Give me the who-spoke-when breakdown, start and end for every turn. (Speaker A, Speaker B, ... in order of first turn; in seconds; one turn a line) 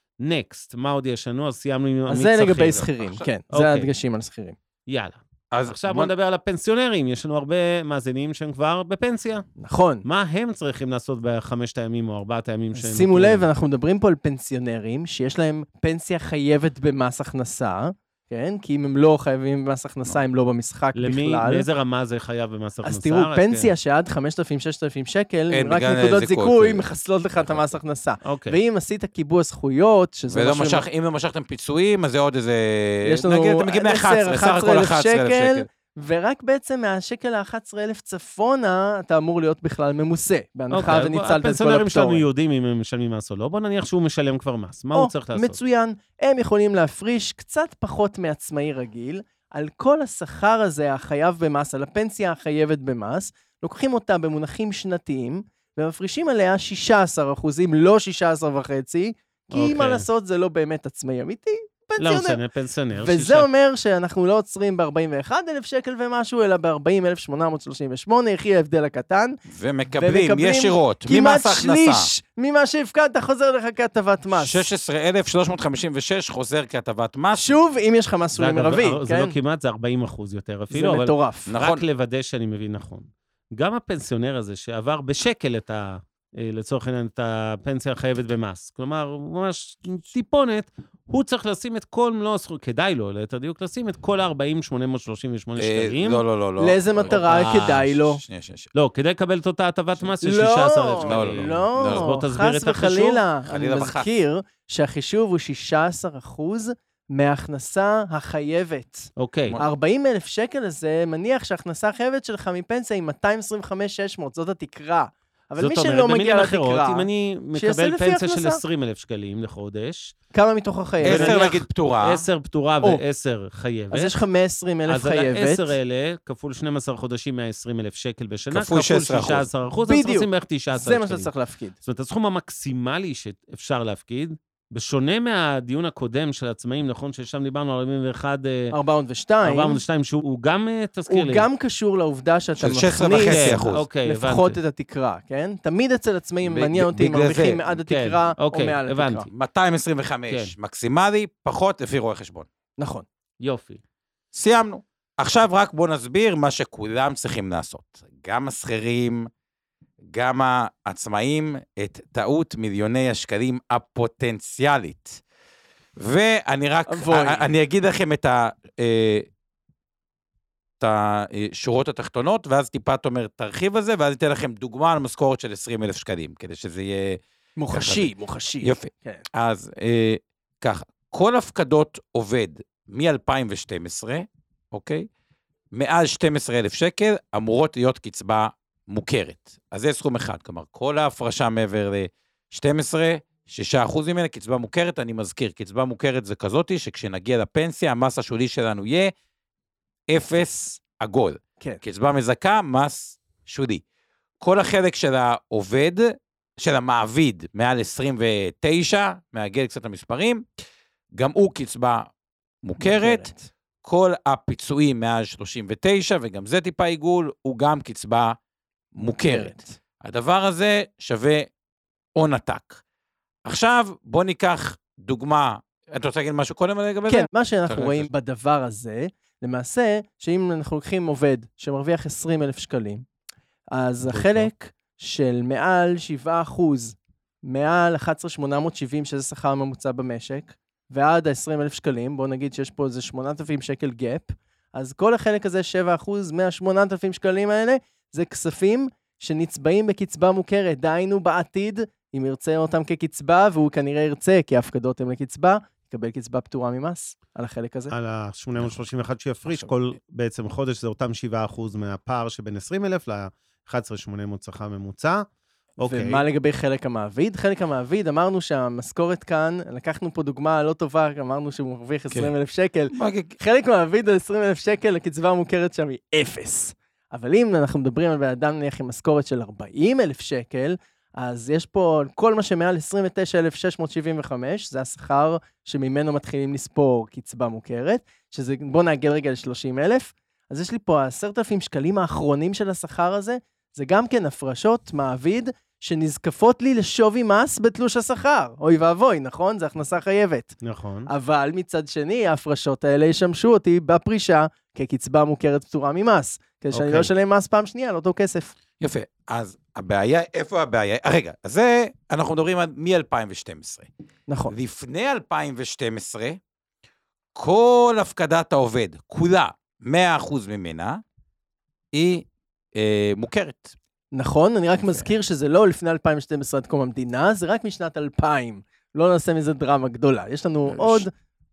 Speaker A: 0.2-2.9
Speaker B: 2.1-4.6
Speaker A: 3.5-3.9
Speaker A: 4.9-9.5
Speaker C: 5.5-6.1
Speaker B: 9.6-10.0
Speaker A: 10.0-13.5
Speaker B: 12.7-21.7
Speaker A: 20.9-23.7
Speaker B: 22.8-30.9
Speaker C: 25.5-27.8
Speaker A: 28.2-28.6
Speaker C: 30.3-35.7
Speaker B: 33.0-42.2
Speaker A: 40.7-45.6
Speaker B: 44.9-62.4
Speaker A: 59.5-60.0
Speaker A: 62.0-63.5
Speaker B: 63.0-69.4
Speaker C: 69.5-72.1
Speaker B: 70.0-74.7
Speaker C: 74.3-77.6
Speaker B: 77.4-79.3
Speaker A: 78.4-96.2
Speaker B: 80.7-81.5
Speaker C: 81.5-81.8
Speaker C: 95.6-98.7
Speaker B: 96.6-98.2
Speaker A: 97.1-97.8
Speaker A: 98.7-103.2
Speaker B: 100.2-118.6
Speaker C: 101.0-102.1
Speaker C: 103.5-104.1
Speaker A: 109.2-109.6
Speaker A: 115.6-120.2
Speaker B: 120.3-121.5
Speaker C: 121.0-122.2
Speaker A: 121.0-124.2
Speaker B: 123.9-125.7
Speaker A: 124.9-131.3
Speaker C: 128.5-129.5
Speaker B: 129.9-131.8
Speaker A: 131.8-138.7
Speaker B: 138.7-139.8
Speaker A: 139.4-141.5
Speaker B: 141.1-149.3
Speaker C: 142.6-143.8
Speaker A: 143.1-144.6
Speaker C: 146.4-147.7
Speaker A: 147.8-149.3
Speaker C: 149.3-152.5
Speaker B: 152.8-153.1
Speaker A: 153.4-153.8
Speaker C: 154.3-159.3
Speaker C: 160.1-165.2
Speaker C: 166.0-169.2
Speaker B: 166.9-167.5
Speaker C: 170.8-177.2
Speaker B: 177.6-179.2
Speaker C: 177.7-178.1
Speaker C: 178.6-185.1
Speaker C: 185.7-199.1
Speaker C: 200.1-203.8
Speaker C: 204.4-210.4
Speaker C: 211.2-212.1
Speaker C: 212.6-213.3
Speaker B: 212.8-213.5
Speaker C: 213.8-218.4
Speaker C: 218.9-221.5
Speaker B: 219.2-219.7
Speaker C: 222.2-222.8
Speaker C: 223.5-228.1
Speaker B: 227.1-233.1
Speaker B: 233.7-257.9
Speaker A: 234.0-234.5
Speaker A: 257.9-265.3
Speaker A: 265.8-266.2
Speaker B: 265.8-300.6
Speaker C: 272.9-273.4
Speaker A: 300.6-301.1
Speaker B: 301.1-308.5
Speaker A: 306.7-307.1
Speaker C: 308.8-313.9
Speaker B: 314.3-314.5
Speaker C: 314.5-316.4
Speaker C: 317.4-321.0
Speaker C: 321.9-323.8
Speaker B: 324.1-331.1
Speaker C: 324.8-325.1
Speaker C: 330.7-331.1